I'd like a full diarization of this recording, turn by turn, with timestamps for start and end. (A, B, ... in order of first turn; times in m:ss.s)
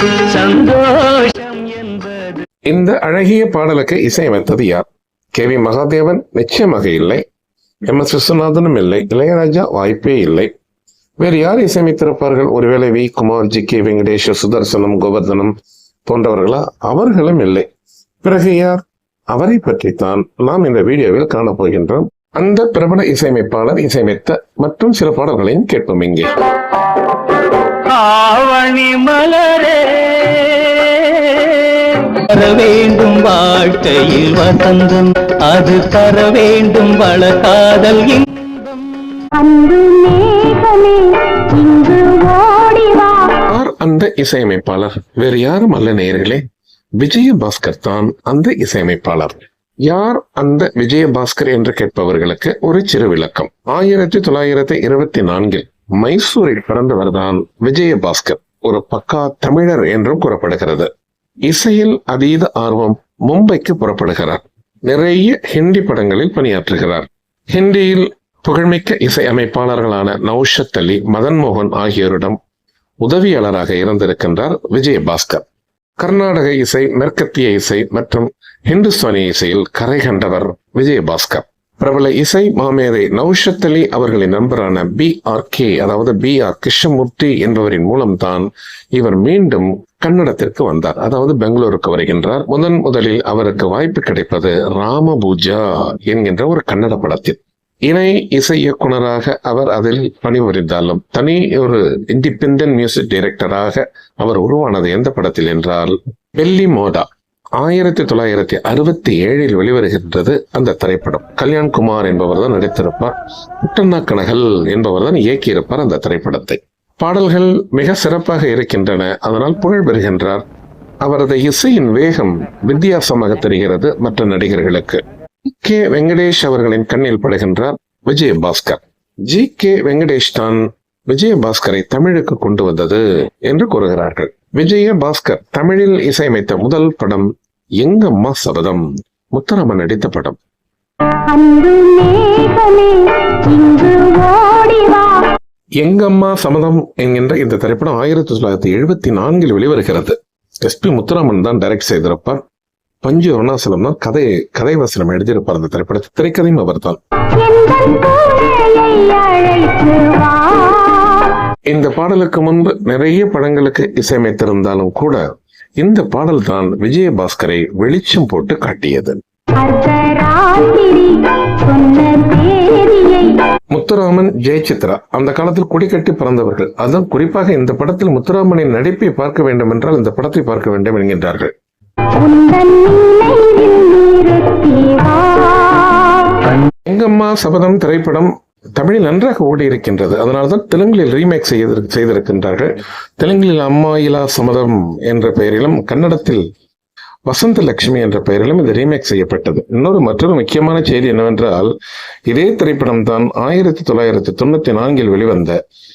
0:00.3-0:02.4 A
0:02.7-0:07.2 B
0:07.9-0:10.5 B
0:11.2-0:15.5 B
0:16.1-0:17.7 B
0:18.2-0:26.3 B
0:27.9-0:38.4 A
0:39.4-0:43.4 C
0:43.5-0:46.4 B
0:47.0-1:00.9 B
1:01.4-1:12.4 B
1:13.0-1:15.4 B
1:16.0-1:47.1 B
1:47.6-2:00.4 B
2:01.0-2:05.0 B
2:05.6-2:17.3 B
2:17.8-2:20.4 B
2:21.3-2:25.3 C
2:25.8-2:32.4 B
2:33.0-2:37.0 B
2:37.3-2:41.4 C
2:41.7-2:45.2 B
2:45.8-2:49.2 B
2:49.6-2:53.4 C
2:53.7-3:01.5 B
3:02.2-3:06.6 C
3:06.8-3:16.4 B
3:17.3-3:21.7 B
3:22.3-3:25.6 B